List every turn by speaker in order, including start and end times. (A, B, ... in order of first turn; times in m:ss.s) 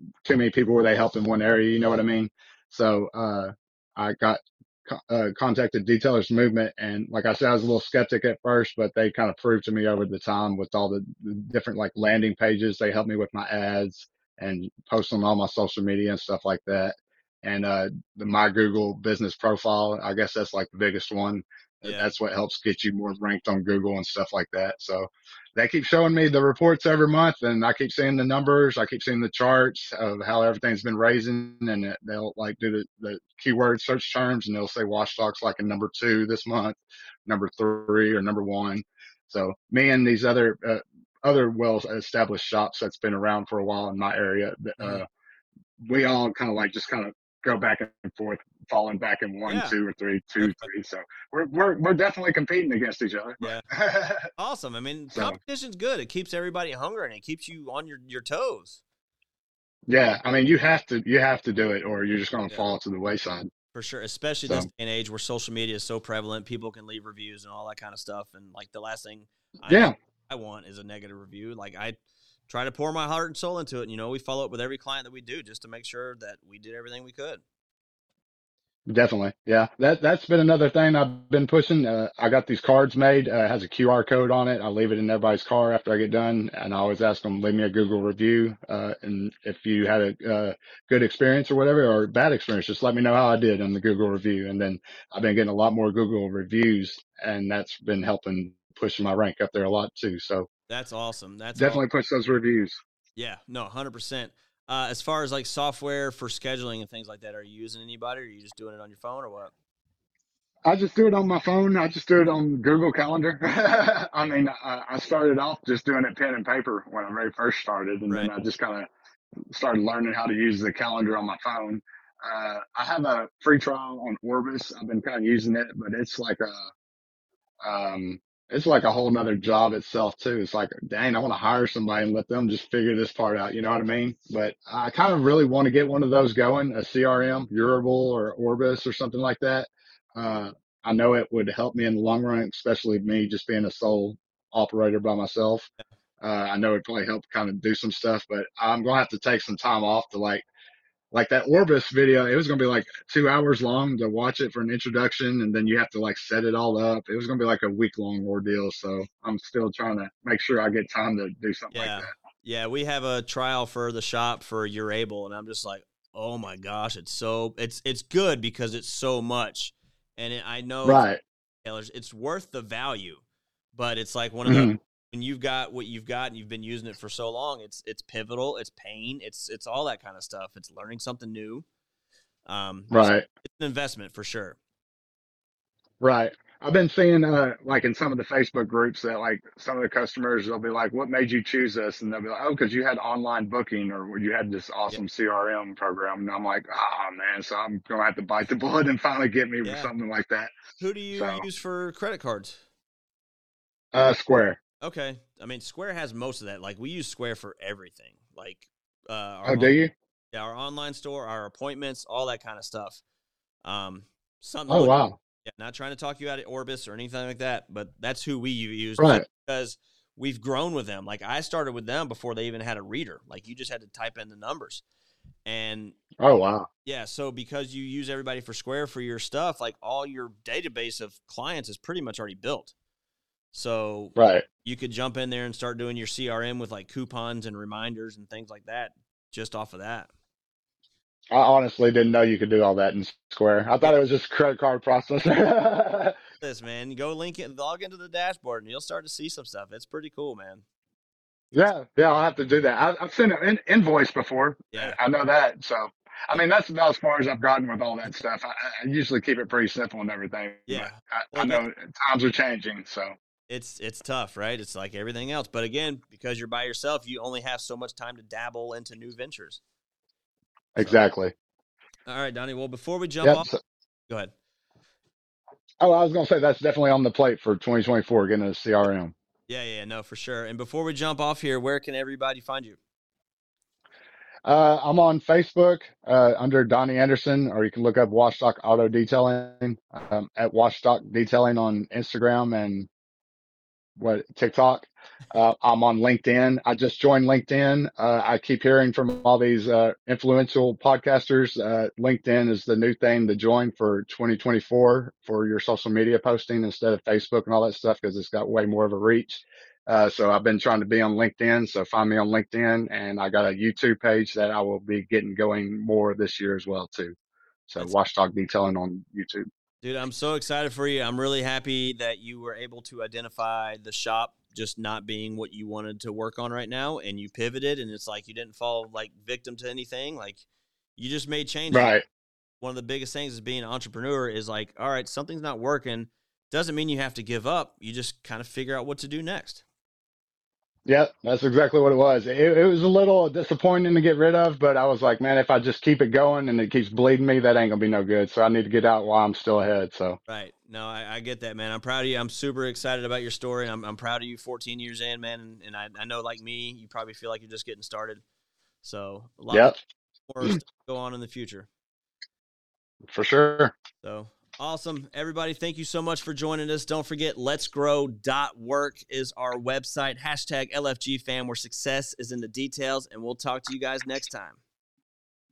0:00.2-0:45.1 A
0:21.8-0:22.1 B
0:45.8-0:54.3 A
0:49.5-0:49.8 B
0:50.4-0:50.7 B
0:54.4-0:58.8 B
0:59.9-1:03.5 A
1:03.7-1:12.0 B
1:09.7-1:09.9 A
1:12.5-1:17.4 B
1:18.9-1:40.5 A
1:40.7-1:41.8 B
1:41.6-1:42.8 A
1:43.2-1:49.5 B
1:50.6-1:58.9 A
1:59.5-2:06.7 A
2:07.6-2:25.7 A
2:26.2-2:30.4 A
2:31.1-2:42.1 A
2:41.7-2:51.1 B
2:50.8-2:51.2 A
2:51.6-2:53.2 B
2:53.7-3:01.6 B
2:54.5-2:54.8 A
3:02.5-3:04.6 B
3:02.9-3:03.2 A
3:06.0-3:20.5 A
3:19.6-3:19.9 B
3:20.8-3:22.6 B
3:21.2-3:21.4 A
3:23.9-3:24.6 A
3:24.8-3:29.8 B
3:29.5-3:29.9 A
3:30.3-3:33.0 B
3:33.6-3:44.8 B
3:34.7-3:35.2 A
3:39.0-3:39.2 A
3:45.5-3:46.0 B
3:46.2-3:46.7 A
3:46.8-3:52.7 B
3:53.5-4:00.1 B
3:54.2-3:54.4 A
4:01.3-4:06.2 A
4:06.4-4:10.6 B
4:11.5-4:23.1 A
4:20.7-4:21.6 B
4:23.5-4:29.6 B
4:30.8-4:31.3 A
4:32.1-4:33.5 B
4:33.2-4:33.6 A
4:35.8-4:39.1 A
4:39.5-4:42.8 B
4:44.5-4:52.9 A
4:54.0-5:17.2 A
5:17.7-5:19.5 A
5:19.8-5:30.4 B
5:31.0-5:32.0 B
5:31.7-5:32.0 A
5:32.6-5:39.6 B
5:40.9-5:50.2 A
5:50.3-5:58.2 B
5:58.8-5:59.8 B
5:59.5-5:59.8 A
6:00.3-6:01.7 B
6:03.1-6:03.7 A
6:04.0-6:14.6 B